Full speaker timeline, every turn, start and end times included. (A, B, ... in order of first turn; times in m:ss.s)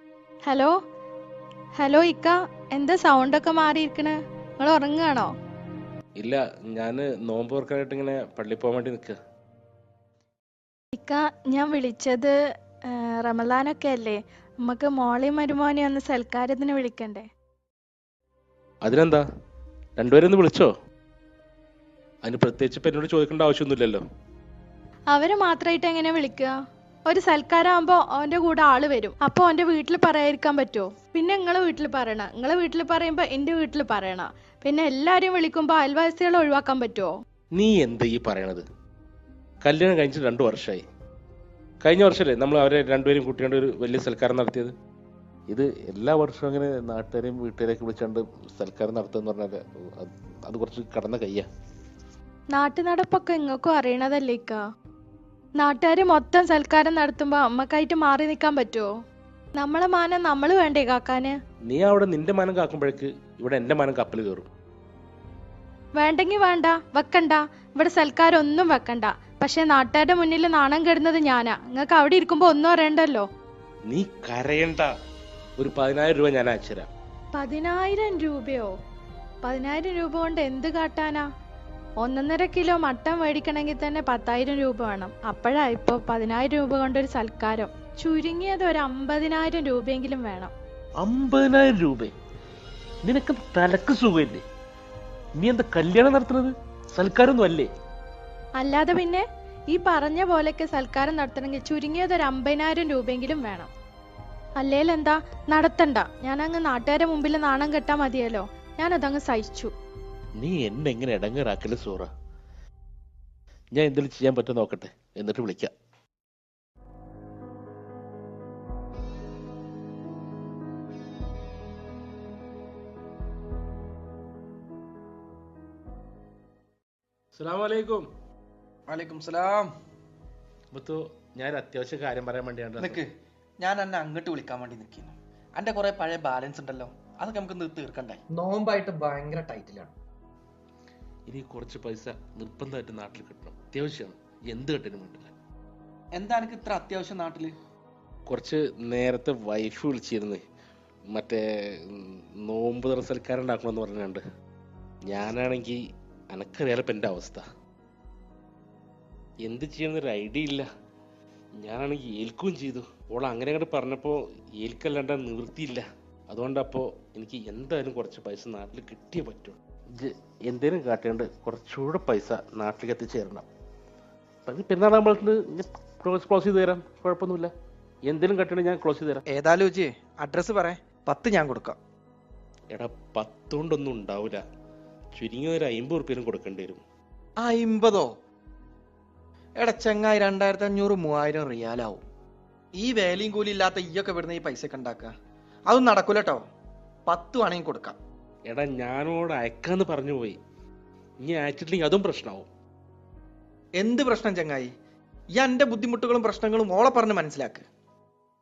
0:00.4-0:00.8 A
0:01.8-0:05.3 A
0:06.2-0:09.2 B
0:10.9-0:12.4 A
0:12.9-0:17.3 A
0:18.8-0:19.2 B
0:20.0-0:20.7 B
0:22.2-0:24.0 B
0:25.1-0:26.5 A
0:27.1-0:37.1 A
0:37.6-0:38.6 B
0:39.6-0:40.8 B
0:41.8-0:44.8 B
0:45.5-0:51.5 B
0:52.5-0:54.6 A
0:55.6-0:58.9 A
0:59.6-1:01.4 A
1:01.7-1:04.5 B
1:06.0-1:13.3 A
1:13.9-1:14.9 B
1:15.6-1:16.9 B
1:17.4-1:18.7 A
1:19.4-1:21.2 A
1:22.0-1:30.5 A
1:31.0-1:32.1 B
1:33.0-1:34.4 B
1:35.4-1:37.7 B
1:38.6-1:43.7 A
1:44.6-1:49.7 A
1:50.4-1:52.1 B
1:53.7-1:55.7 B
2:07.4-2:08.1 B
2:08.9-2:09.7 C
2:10.7-2:13.0 B
2:12.8-2:13.1 C
2:13.6-2:19.9 C
2:21.3-2:25.3 B
2:26.1-2:27.6 C
2:28.3-2:30.4 B
2:31.1-2:34.2 B
2:35.1-2:35.8 B
2:36.3-2:37.4 B
2:39.4-2:40.7 B
2:41.6-2:53.5 B
2:54.5-2:57.5 B
2:58.0-2:59.2 B
2:59.3-3:01.8 C
3:02.7-3:04.4 B
3:05.2-3:06.8 B
3:07.4-3:08.1 C
3:09.6-3:12.0 C
3:12.8-3:15.1 C
3:15.7-3:16.5 C
3:17.1-3:18.0 C
3:18.5-3:20.4 B
3:21.2-3:22.5 B
3:23.8-3:24.7 C
3:25.3-3:27.7 C